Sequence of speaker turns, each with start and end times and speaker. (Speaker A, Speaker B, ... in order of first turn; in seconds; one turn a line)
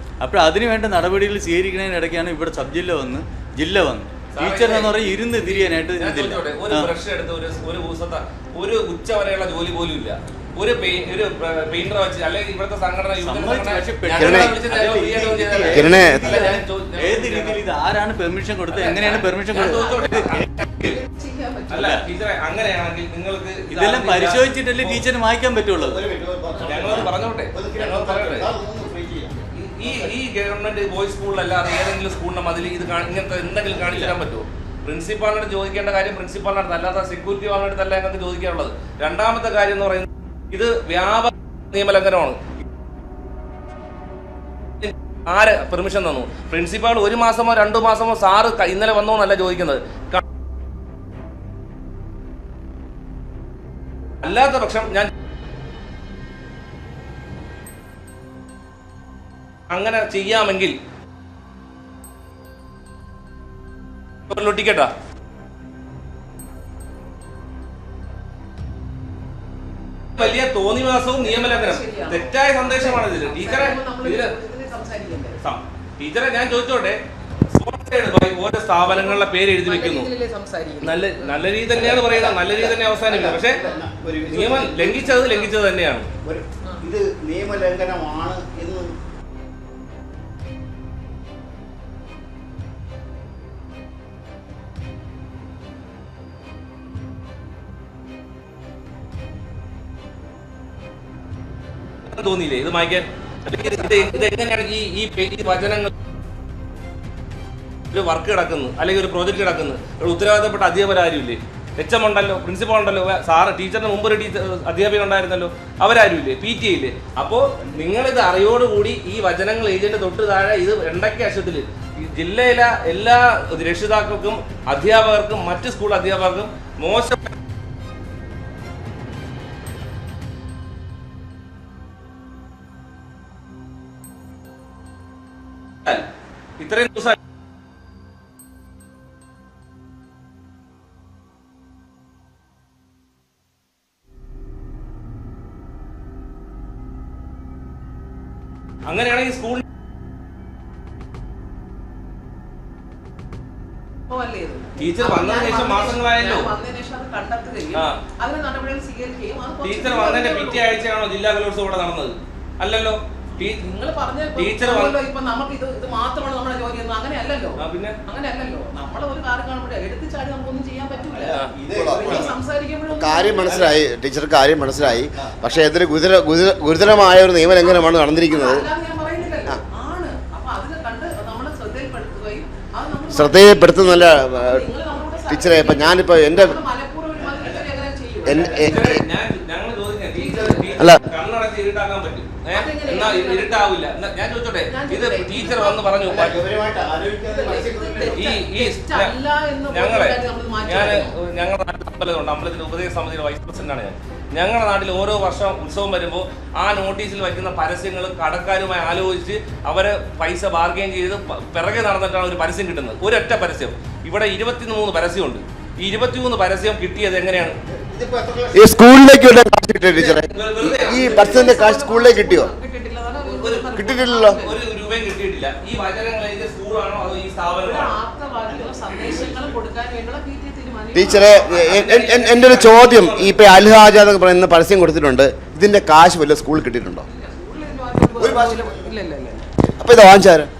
Speaker A: 0.2-6.9
Speaker B: 4.3-17.6
Speaker A: 13.2-20.4
Speaker C: 14.2-14.6
Speaker C: 15.7-16.4
Speaker B: 18.7-21.0
Speaker D: 19.6-20.1
Speaker D: 20.7-21.9
Speaker B: 21.7-25.0
Speaker A: 21.7-22.0
Speaker A: 23.7-26.0
Speaker E: 25.9-30.1
Speaker B: 26.6-28.5
Speaker A: 26.8-27.1
Speaker B: 29.5-42.4
Speaker A: 33.8-34.1
Speaker B: 44.8-50.2
Speaker B: 54.2-55.1
Speaker B: 59.7-60.8
Speaker B: 64.3-64.9
Speaker B: 70.2-74.3
Speaker D: 71.2-75.4
Speaker B: 75.4-80.1
Speaker D: 78.8-82.2
Speaker B: 80.8-83.6
Speaker E: 81.8-85.3
Speaker B: 84.3-86.1
Speaker D: 85.1-85.5
Speaker E: 86.2-89.0
Speaker B: 102.1-105.9
Speaker D: 103.8-104.1
Speaker B: 107.9-127.3
Speaker B: 136.6-137.2
Speaker B: 148.9-149.6
Speaker D: 154.1-160.8
Speaker B: 154.8-156.5
Speaker B: 159.6-163.6
Speaker D: 163.4-173.8
Speaker B: 164.3-165.0
Speaker B: 167.6-168.0
Speaker E: 171.1-172.3
Speaker C: 171.7-172.3
Speaker C: 172.9-178.7
Speaker D: 177.5-188.9
Speaker C: 183.1-184.6
Speaker C: 185.3-186.6
Speaker C: 188.2-189.0
Speaker B: 188.3-196.4
Speaker D: 190.1-190.9
Speaker D: 192.5-193.7
Speaker D: 194.7-196.2
Speaker E: 196.0-198.3
Speaker D: 197.2-201.1
Speaker B: 198.1-199.1
Speaker B: 199.7-217.6
Speaker E: 217.7-218.6
Speaker C: 218.5-222.5
Speaker B: 219.9-221.4
Speaker D: 220.7-224.6
Speaker B: 223.2-223.7
Speaker C: 223.7-224.4
Speaker B: 224.2-227.9
Speaker D: 227.5-231.7
Speaker E: 228.5-229.5
Speaker C: 230.9-237.1
Speaker B: 231.5-233.4
Speaker D: 237.1-239.5
Speaker C: 238.2-238.9
Speaker C: 239.7-240.5